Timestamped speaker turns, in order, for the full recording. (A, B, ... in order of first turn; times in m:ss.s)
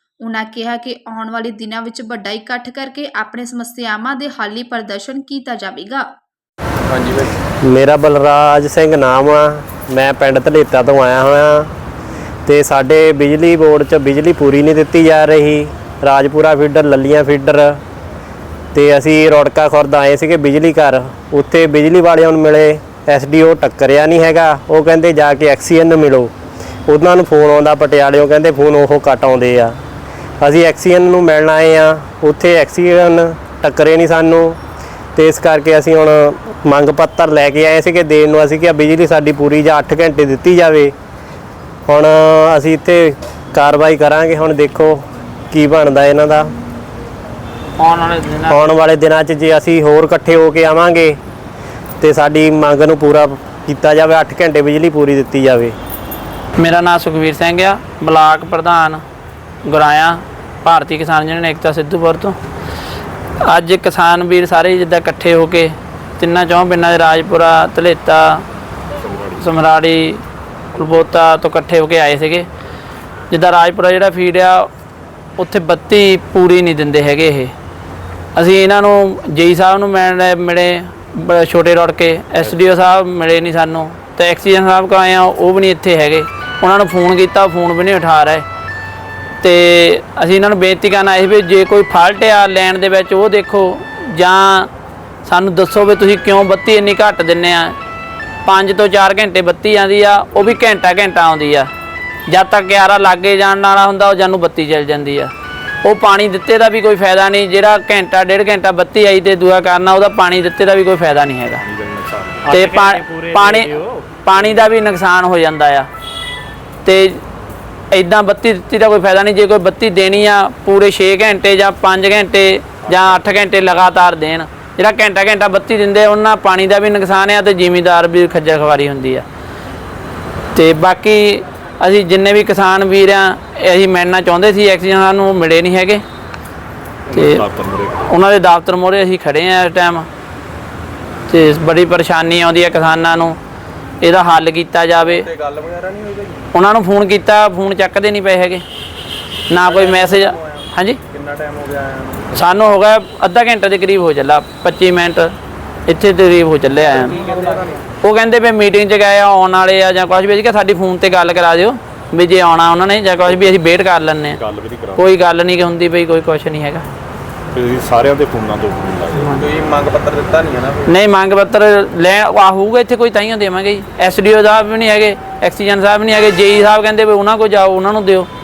0:00.2-0:06.1 A
0:06.9-0:07.3 B
0:07.6-0:11.7 C
0:12.4-0:17.8 C
0:18.7-0:26.3 C
0:26.9-0:29.8 C
0:30.4-0:34.6 C
0:35.1-0:40.9 C
0:41.9-0:46.5 C
0:47.8-0:48.6 D
0:48.5-0:51.2 C
0:52.0-0:55.7 C
0:56.6-0:59.0 D
0:59.6-1:02.4 D
1:03.4-1:08.4 D
1:09.0-1:09.4 E
1:09.4-1:10.2 D
1:10.7-1:12.5 D
1:13.3-1:14.7 D
1:15.4-1:17.5 D
1:18.3-1:28.4 D
1:29.4-1:34.7 D
1:35.2-1:37.8 D
1:38.4-1:41.7 D
1:42.3-1:45.3 D
1:45.8-1:51.6 D
1:51.6-1:52.6 E
1:52.5-1:55.9 D
1:52.5-1:53.8 C
1:56.8-1:57.2 D
1:57.9-2:09.2 D
2:02.9-2:03.4 E
2:10.5-2:16.0 D
2:17.1-2:17.4 D
2:17.1-2:18.0 E
2:18.0-2:20.1 D
2:21.3-2:23.4 D
2:24.0-2:25.3 D
2:25.0-2:26.4 B
2:26.5-2:28.6 D
2:29.5-2:31.0 D
2:29.5-2:32.2 B
2:32.3-2:35.3 D
2:35.9-2:37.3 D
2:36.9-2:37.8 B
2:38.0-2:44.4 D
2:43.2-2:43.5 E
2:44.3-2:45.1 E
2:45.0-2:46.8 D
2:47.5-2:49.4 E
2:49.2-2:49.5 D
2:49.4-2:50.9 B
2:50.8-2:58.3 D